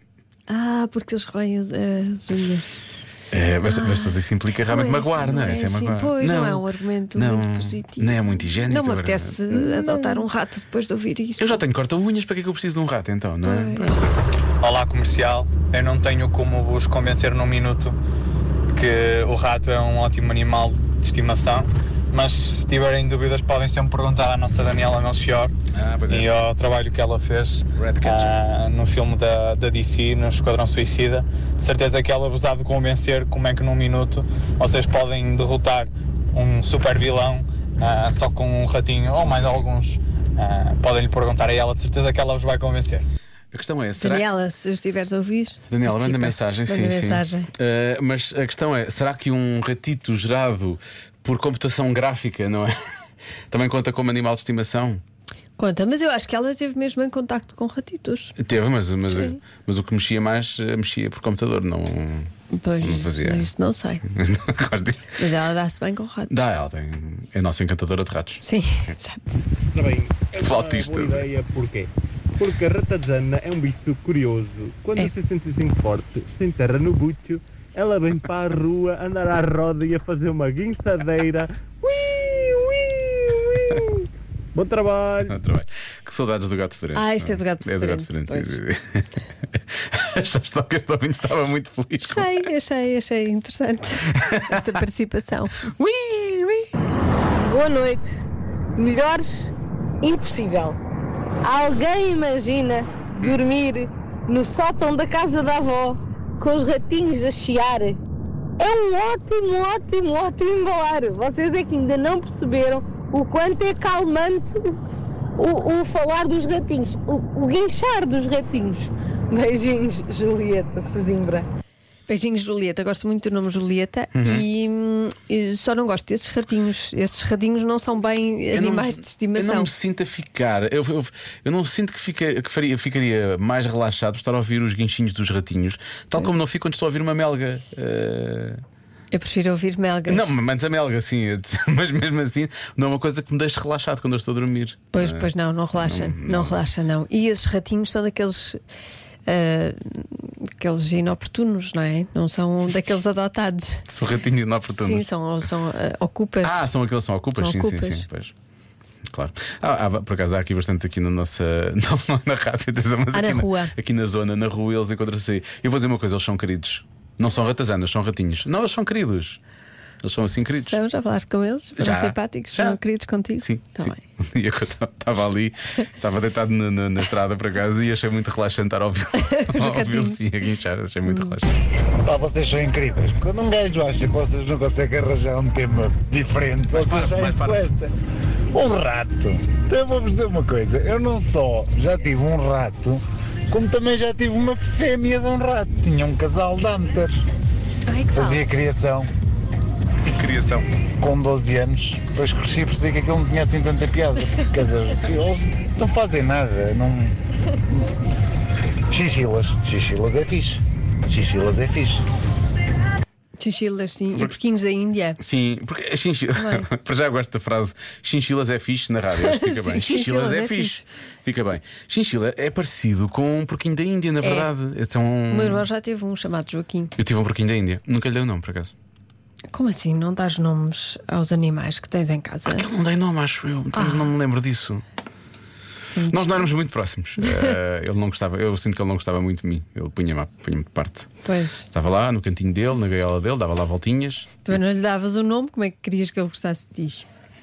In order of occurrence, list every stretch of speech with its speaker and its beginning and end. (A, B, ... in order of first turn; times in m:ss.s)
0:00.5-0:02.6 A
0:03.3-0:10.3 B
0:03.6-0:11.6 A
0:11.4-0:14.0 B
0:13.4-0:14.0 A
0:14.6-0:18.0 C
0:18.7-0:25.5 C
0:25.7-0:26.4 B
0:26.1-0:43.0 C
0:27.7-0:28.4 B
0:43.5-0:44.2 B
0:44.0-0:47.5 A
0:45.7-0:52.7 B
0:53.5-0:55.0 B
0:55.6-0:58.3 A
0:58.4-1:03.5 B
0:59.1-0:59.4 A
1:02.5-1:04.0 A
1:04.1-1:05.2 B
1:05.2-1:06.3 A
1:06.3-1:08.4 B
1:08.4-1:09.4 A
1:09.7-1:25.4 D
1:10.4-1:11.3 B
1:25.3-1:32.4 B
1:26.9-1:28.6 A
1:32.0-1:35.7 A
1:34.2-1:34.6 B
1:35.8-1:36.7 B
1:37.4-1:38.2 E
1:38.8-1:39.5 E
1:40.0-1:40.8 E
1:41.4-1:48.0 E
1:48.6-1:54.8 E
1:55.4-2:01.5 E
2:02.1-2:09.7 A
2:04.1-2:04.5 B
2:08.5-2:18.6 B
2:19.1-2:20.3 A
2:20.1-2:26.6 B
2:24.9-2:28.6 A
2:29.2-2:33.8 A
2:33.9-2:35.1 B
2:34.7-2:36.7 A
2:36.4-2:38.3 B
2:37.4-2:38.0 A
2:39.1-2:49.4 B
2:43.1-2:43.7 A
2:50.0-2:50.8 B
2:50.6-2:54.0 A
2:51.8-2:52.8 B
2:53.4-3:01.5 B
2:59.2-3:00.2 A
3:01.1-3:01.4 A
3:02.0-3:07.9 F
3:06.7-3:07.7 B
3:08.5-3:17.1 F
3:17.9-3:18.4 A
3:18.1-3:19.1 F
3:20.0-3:20.6 B
3:21.0-3:27.2 F
3:28.9-3:32.0 F
3:33.4-3:35.2 A
3:35.2-3:45.6 B
3:36.4-3:36.7 A
3:39.2-3:40.8 A
3:44.2-3:44.5 A
3:45.3-3:46.9 A
3:47.0-3:48.7 B
3:49.5-3:52.7 A
3:52.4-3:54.8 B
3:53.7-3:54.1 A
3:55.9-3:56.5 A
3:56.1-4:01.1 B
4:01.2-4:01.6 A
4:01.7-4:04.5 B
4:04.4-4:07.0 A